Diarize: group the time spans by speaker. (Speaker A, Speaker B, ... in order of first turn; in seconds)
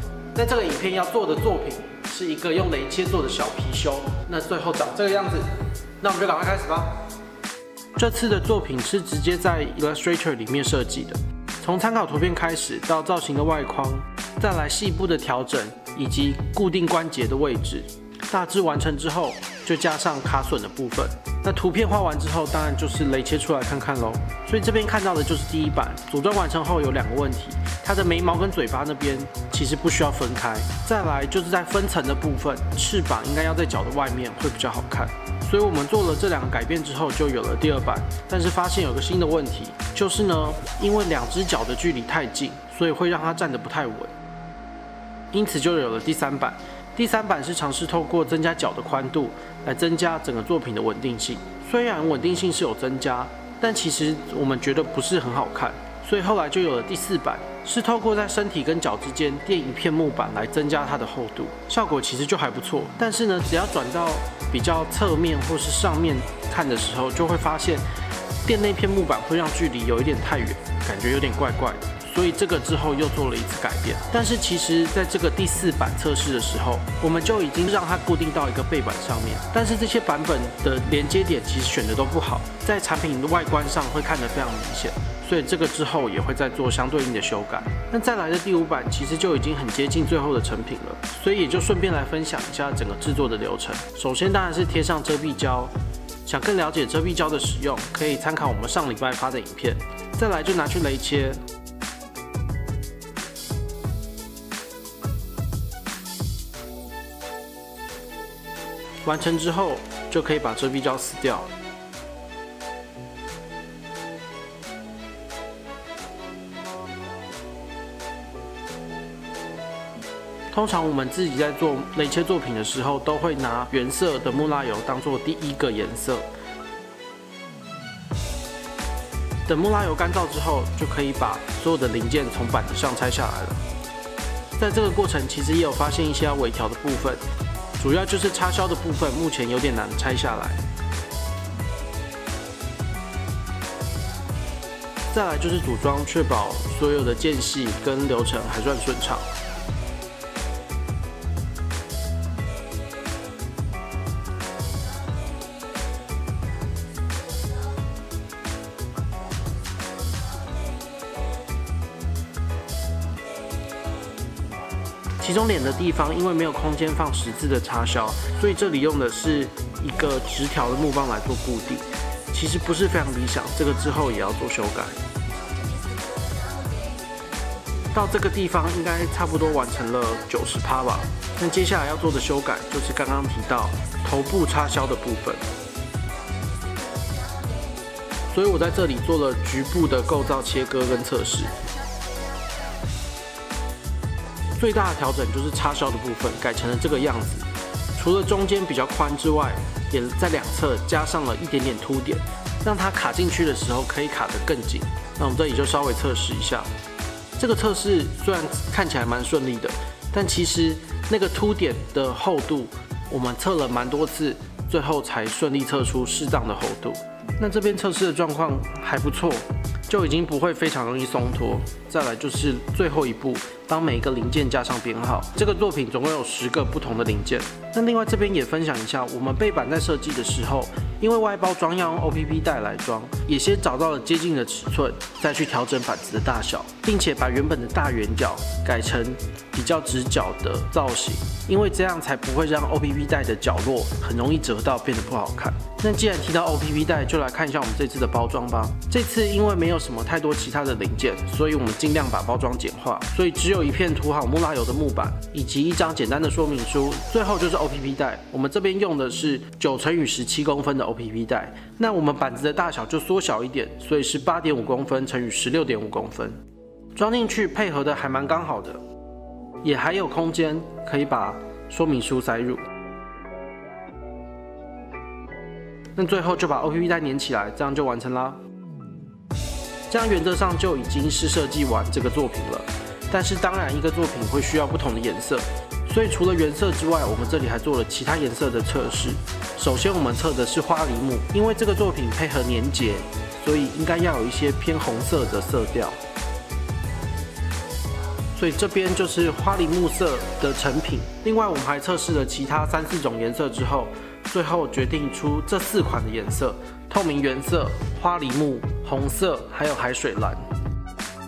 Speaker A: 0.3-5.5, 6.0-7.0, 8.0-44.1, 45.3-67.8, 68.4-95.7, 96.2-101.4, 109.0-111.5, 120.5-126.2, 129.5-133.6, 134.6-137.2, 137.8-140.6, 145.1-149.3, 165.2-175.0, 177.9-185.4, 188.3-191.5, 194.6-206.7, 207.4-266.4, 266.9-268.8, 269.6-272.6, 275.9-278.4, 279.9-296.0, 298.3-310.4